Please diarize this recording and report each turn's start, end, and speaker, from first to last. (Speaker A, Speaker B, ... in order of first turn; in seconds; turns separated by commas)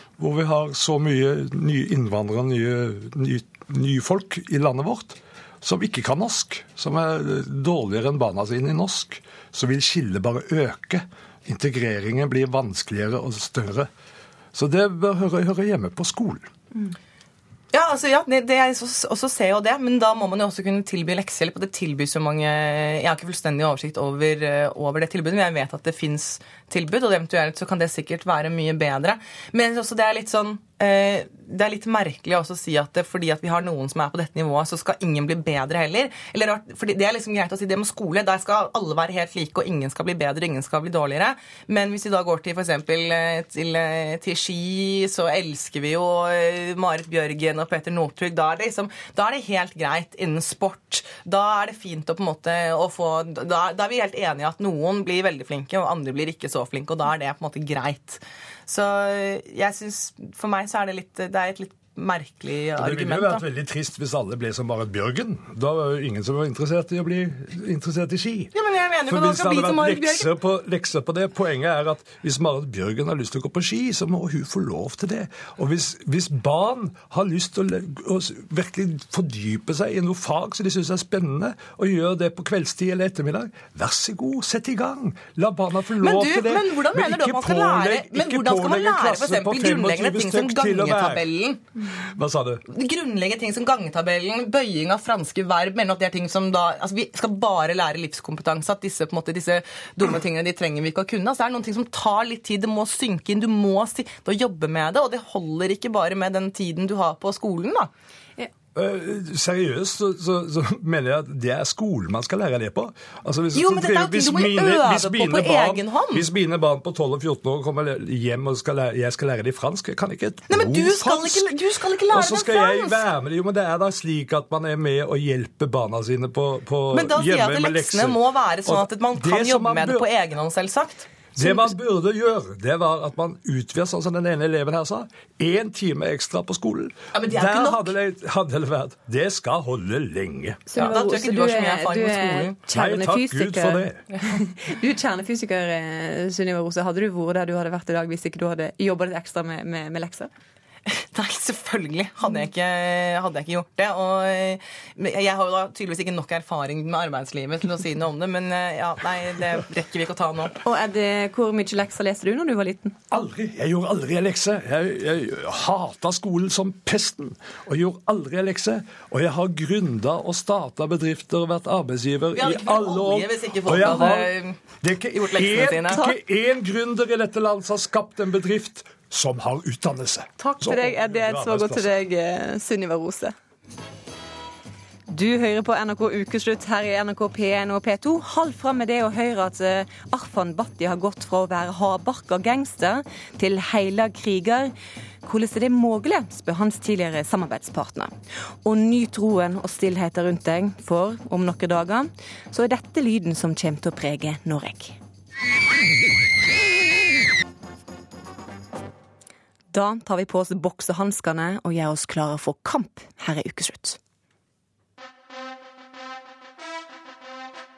Speaker A: 0.2-13.9, Speaker A: 14.5-16.5, Speaker B: 17.7-63.4, Speaker A: 62.8-68.5, Speaker B: 68.5-70.3, Speaker A: 69.1-91.2, Speaker B: 86.0-91.6, Speaker A: 92.1-92.6, Speaker B: 92.7-107.9, Speaker A: 108.8-121.6, Speaker B: 113.5-116.3, Speaker B: 120.5-123.0, Speaker A: 122.1-130.1, Speaker B: 126.9-131.8, Speaker A: 131.4-140.6, Speaker B: 137.1-137.9, Speaker C: 140.7-150.3, Speaker B: 140.8-142.6, Speaker A: 142.7-144.0, Speaker B: 150.9-160.6, Speaker C: 160.6-163.0, Speaker A: 163.1-181.9, Speaker B: 172.3-176.1, Speaker C: 180.4-183.3, Speaker C: 185.1-194.7, Speaker C: 195.2-205.0, Speaker C: 209.7-214.0